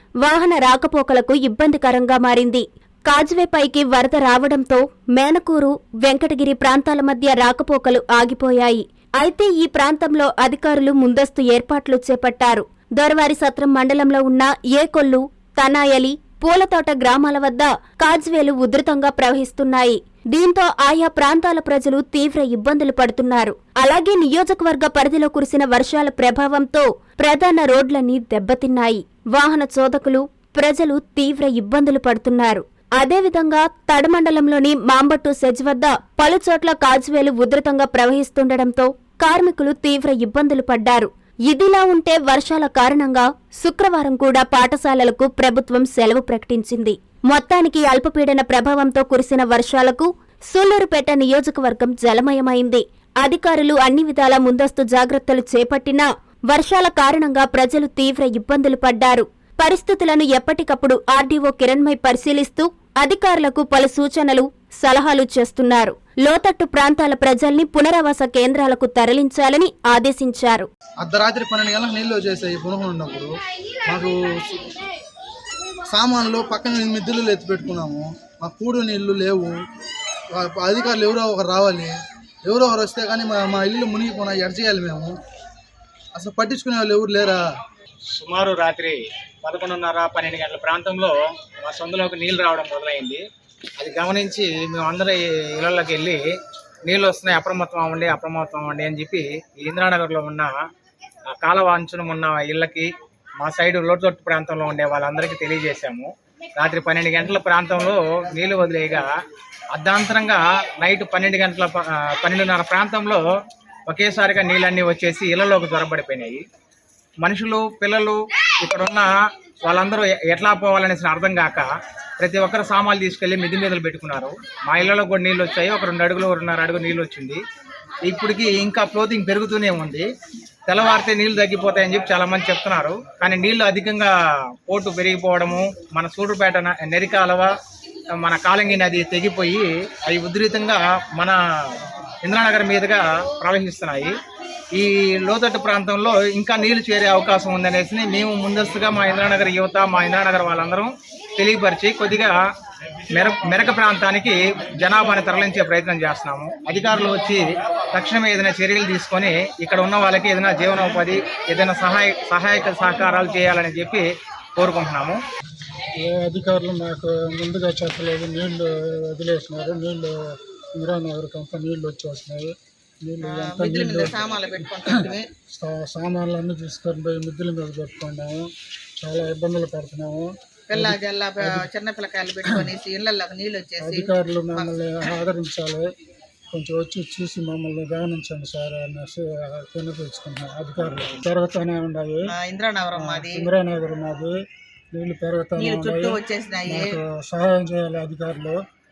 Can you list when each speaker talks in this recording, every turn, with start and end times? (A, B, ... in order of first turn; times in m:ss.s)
0:00.2-1:10.7 A
1:11.0-1:13.3 B
1:13.9-1:14.7 B
1:15.9-1:19.6 B
1:20.3-1:21.9 B
1:22.4-1:25.2 B
1:26.2-1:27.4 B
1:28.1-1:33.2 C
1:33.8-1:36.2 C
1:36.9-1:40.5 C
1:41.3-1:49.1 C
1:49.7-1:53.2 C
1:53.9-1:56.4 C
1:57.2-1:59.1 C
1:59.6-2:01.7 C
2:02.2-2:07.4 C
2:08.0-2:10.1 C
2:10.7-2:14.1 C
2:14.7-2:17.5 C
2:18.2-2:24.2 C
2:24.8-2:32.4 C
2:33.1-2:44.0 C
2:44.6-2:45.2 C
2:46.0-2:50.2 D
2:50.8-3:01.0 D
2:53.2-2:55.3 E
3:00.7-3:04.7 E
3:03.8-3:05.9 D
3:06.5-3:12.3 D
3:12.4-3:13.5 E
3:13.0-3:14.3 D
3:14.9-3:18.6 D
3:15.6-3:17.0 E